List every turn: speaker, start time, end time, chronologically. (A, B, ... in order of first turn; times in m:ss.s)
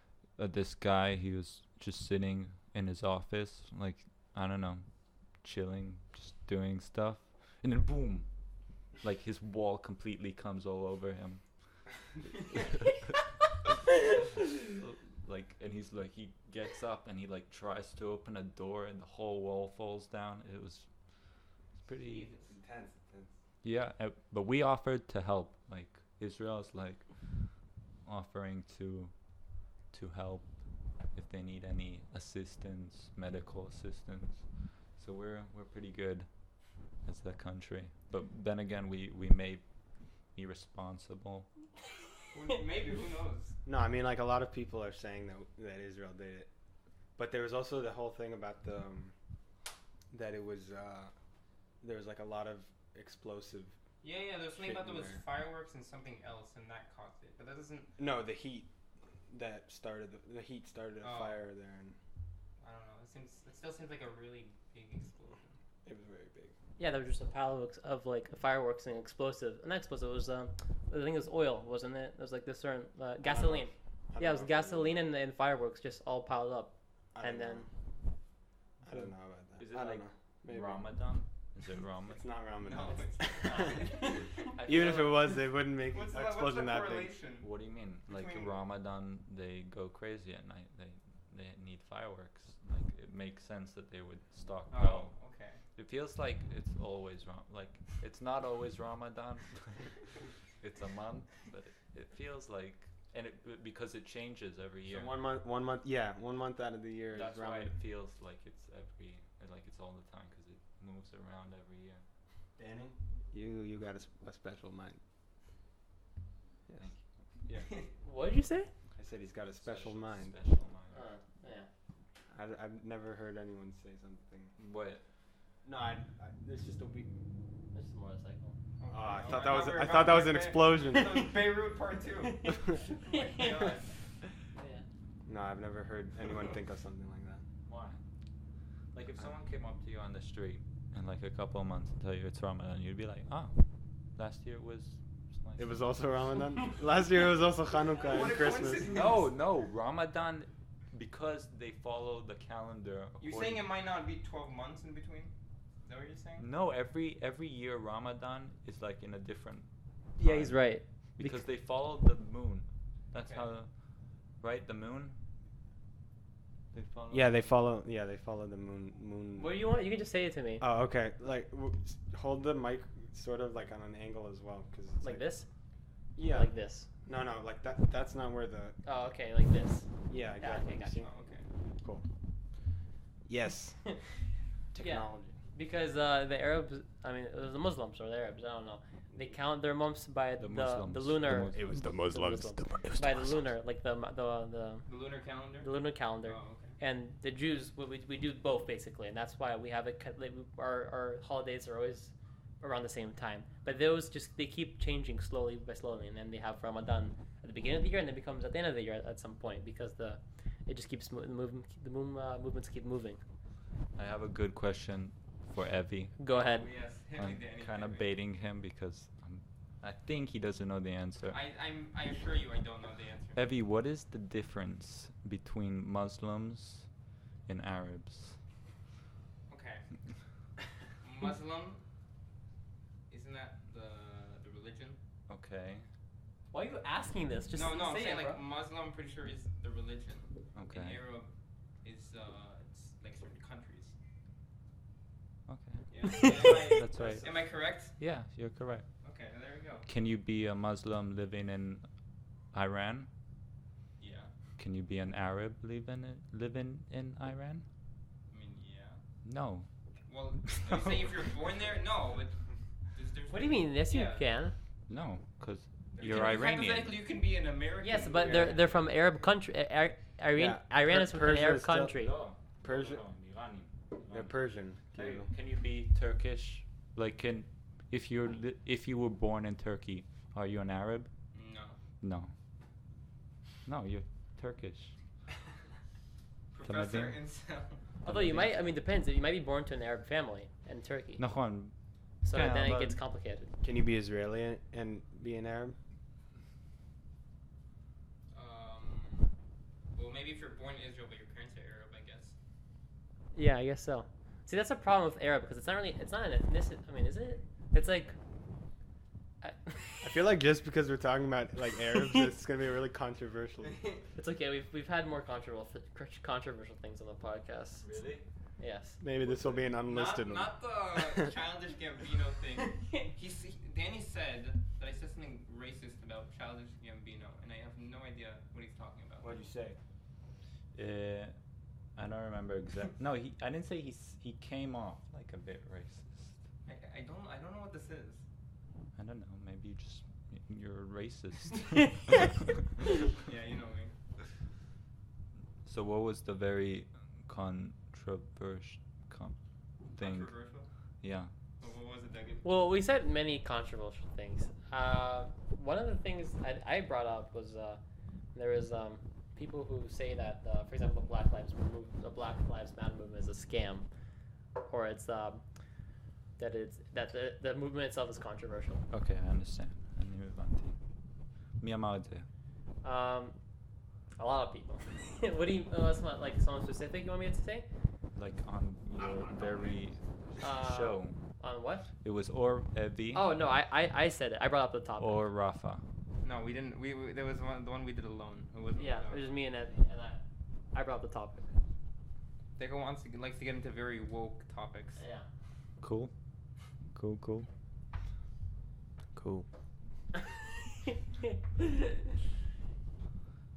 0:00.4-0:04.9 A
0:05.4-0:08.3 A
0:09.0-0:11.4 A
0:12.4-0:13.1 A
0:14.6-0:20.9 A
0:21.8-0:22.3 A
0:22.0-0:22.5 B
0:22.4-0:23.3 C
0:23.6-0:27.1 A
0:28.0-0:29.1 A
0:29.9-0:30.6 A
0:31.1-0:36.3 A
0:37.0-0:39.7 A
0:40.3-0:41.5 A
0:42.3-0:43.6 B
0:43.6-0:46.5 C
0:47.2-0:49.1 C
0:50.1-0:51.1 C
0:51.8-0:53.8 C
0:54.0-0:57.9 B
0:54.6-0:55.2 C
0:58.0-0:58.7 C
0:59.3-1:02.0 C
1:01.0-1:01.4 B
1:02.6-1:05.5 B
1:05.8-1:06.5 C
1:06.8-1:17.7 D
1:13.2-1:15.0 C
1:17.2-1:17.7 C
1:18.8-1:21.0 C
1:19.6-1:22.2 A
1:22.1-1:27.1 C
1:22.6-1:25.1 B
1:23.4-1:24.5 D
1:24.1-1:25.2 A
1:25.9-1:27.5 B
1:27.4-1:35.1 A
1:28.1-1:28.6 B
1:34.7-1:35.6 B
1:35.7-1:45.1 A
1:44.8-1:47.8 C
1:47.1-1:52.0 A
1:52.6-1:55.0 C
1:58.0-1:58.7 D
1:59.0-2:00.4 C
1:59.6-2:01.0 A
2:00.9-2:01.7 D
2:02.3-2:04.6 C
2:04.6-2:05.0 A
2:05.6-2:07.1 C
2:07.7-2:08.6 D
2:08.8-2:13.9 B
2:08.9-2:11.4 C
2:12.2-2:13.7 D
2:14.6-2:14.8 D
2:15.3-2:17.4 C
2:17.7-2:18.0 A
2:18.9-2:23.6 A
2:24.2-2:25.9 A
2:25.6-2:29.2 C
2:28.0-2:29.3 B
2:28.9-2:33.6 A
2:33.2-2:35.3 B
2:35.8-2:36.5 B
2:36.4-2:40.6 A
2:40.2-2:41.4 D
2:41.2-2:43.7 A
2:43.2-2:43.5 B
2:44.4-2:45.2 A
2:46.7-2:47.3 A
2:47.1-2:49.6 C
2:49.4-2:50.6 D
2:50.6-2:55.2 C
2:55.0-2:55.5 D
2:56.2-2:56.5 C
2:56.2-2:56.9 D
2:57.1-2:58.8 C
2:58.8-2:59.9 D
3:00.1-3:01.1 C
3:00.4-3:01.0 D
3:01.0-3:01.4 B
3:03.3-3:03.8 C
3:04.7-3:05.4 C
3:04.8-3:14.9 D
3:10.4-3:11.9 A
3:11.5-3:13.5 C
3:14.9-3:15.7 B
3:15.6-3:33.2 D
3:16.2-3:16.8 B
3:34.0-3:36.2 A
3:36.2-3:36.7 D
3:36.3-3:38.1 B
3:37.2-3:41.4 A
3:41.3-3:43.4 B
3:43.4-3:46.9 A
3:47.5-3:48.4 A
3:49.5-3:49.8 B
3:51.0-3:51.8 B
3:53.1-3:55.0 B
3:55.3-3:55.9 A
3:56.5-3:58.4 D
3:57.5-4:01.3 B
4:00.6-4:01.0 A
4:01.8-4:04.0 B
4:05.5-4:08.9 A
4:05.9-4:08.0 B
4:06.0-4:07.3 D
4:09.0-4:09.9 B
4:09.9-4:11.9 A
4:12.5-4:13.1 A
4:14.0-4:14.3 B
4:14.6-4:17.7 A
4:18.3-4:19.0 B
4:19.2-4:19.7 A
4:20.1-4:24.3 B
4:20.4-4:21.3 A
4:23.3-4:24.5 D
4:24.9-4:27.0 A
4:26.0-4:28.8 B
4:27.8-4:32.1 D
4:30.4-4:31.9 C
4:31.9-4:34.4 A
4:32.6-4:33.0 C
4:34.1-4:35.3 C
4:34.9-4:41.1 A
4:41.3-4:41.8 B
4:42.0-4:42.3 A
4:43.6-4:44.9 A
4:46.5-4:47.8 B
4:46.6-4:47.2 A
4:48.0-4:51.2 D
4:48.0-4:48.6 A
4:51.2-4:53.0 A
4:52.2-4:53.5 D
4:53.6-4:55.8 C
4:58.3-4:59.3 B
5:00.0-5:02.4 B
5:03.4-5:08.2 D
5:09.4-5:10.2 D
5:10.0-5:13.8 C
5:13.6-5:14.0 B
5:14.2-5:17.9 D
5:17.8-5:18.2 A
5:18.6-5:19.0 D
5:19.0-5:21.3 C
5:19.2-5:19.7 A
5:19.8-5:29.4 B
5:29.2-5:29.8 A
5:30.7-5:31.4 A
5:32.0-5:36.4 A
5:36.6-5:38.2 B
5:39.0-5:42.5 A
5:43.1-5:43.9 B
5:45.6-5:49.4 A
5:49.9-5:50.4 A
5:50.0-5:50.7 B
5:51.0-5:51.3 A
5:51.6-5:52.4 B
5:52.4-5:57.8 D
5:58.4-6:03.9 D
6:04.6-6:05.4 D
6:06.4-6:08.8 D
6:08.9-6:10.8 A
6:11.6-6:12.3 A
6:12.8-6:13.4 D
6:14.2-6:17.7 D
6:18.2-6:21.2 A
6:20.4-6:21.9 D
6:22.0-6:23.2 A
6:23.1-6:25.2 D
6:25.0-6:25.8 A
6:26.2-6:29.3 B
6:28.8-6:31.5 D
6:32.6-6:35.0 B
6:35.0-6:35.3 D
6:35.8-6:36.1 A
6:36.9-6:37.5 A
6:39.2-6:39.4 C
6:40.8-6:42.0 D